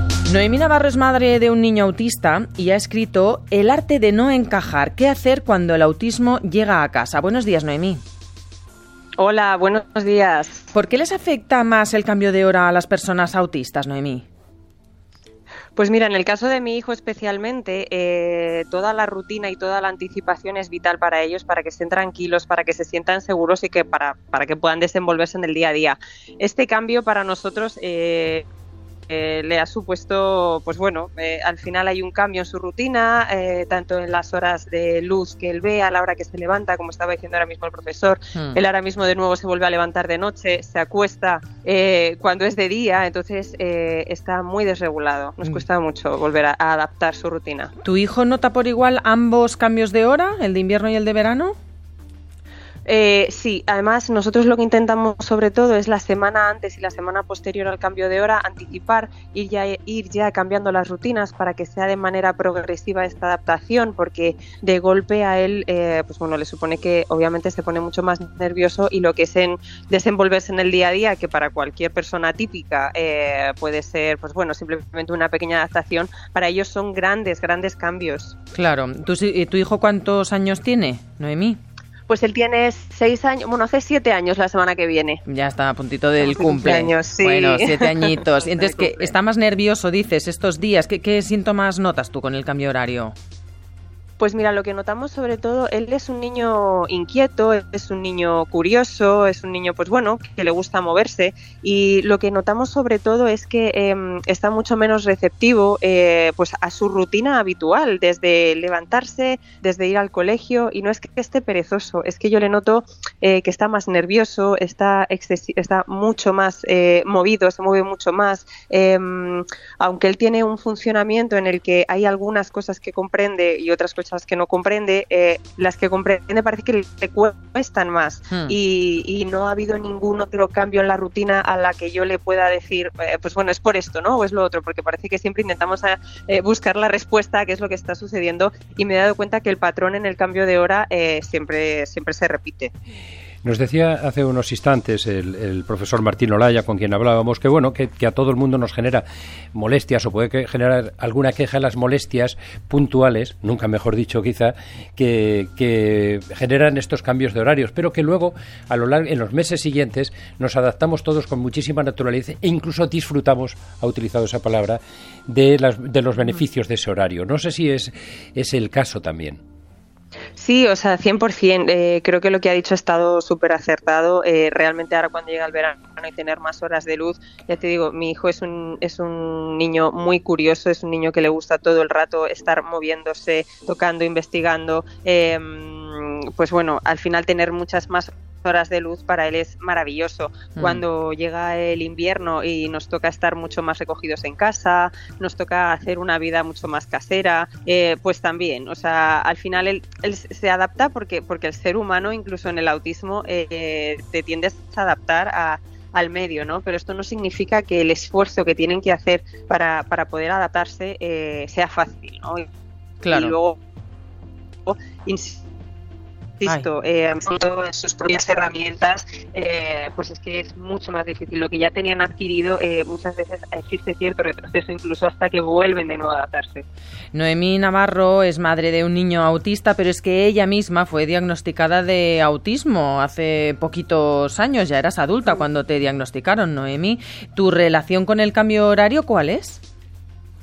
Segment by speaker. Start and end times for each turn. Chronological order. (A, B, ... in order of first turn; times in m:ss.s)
0:00.3-0:08.0 A
0:09.2-0:10.7 B
0:10.7-0:14.3 A
0:15.8-0:28.4 B
0:29.1-0:47.7 B
0:47.8-0:51.6 A
0:52.9-1:18.4 B
1:18.5-1:21.6 A
1:22.1-1:25.2 B
1:25.3-1:33.2 A
1:26.2-1:29.1 B
1:34.2-2:22.7 B
2:08.3-2:08.6 A
2:23.4-2:49.4 C
2:50.4-3:32.5 B
3:10.6-3:10.8 A
3:33.0-3:33.4 A
3:33.1-3:33.6 B
3:34.7-3:35.4 B
3:36.4-3:46.6 B
3:47.1-3:59.6 A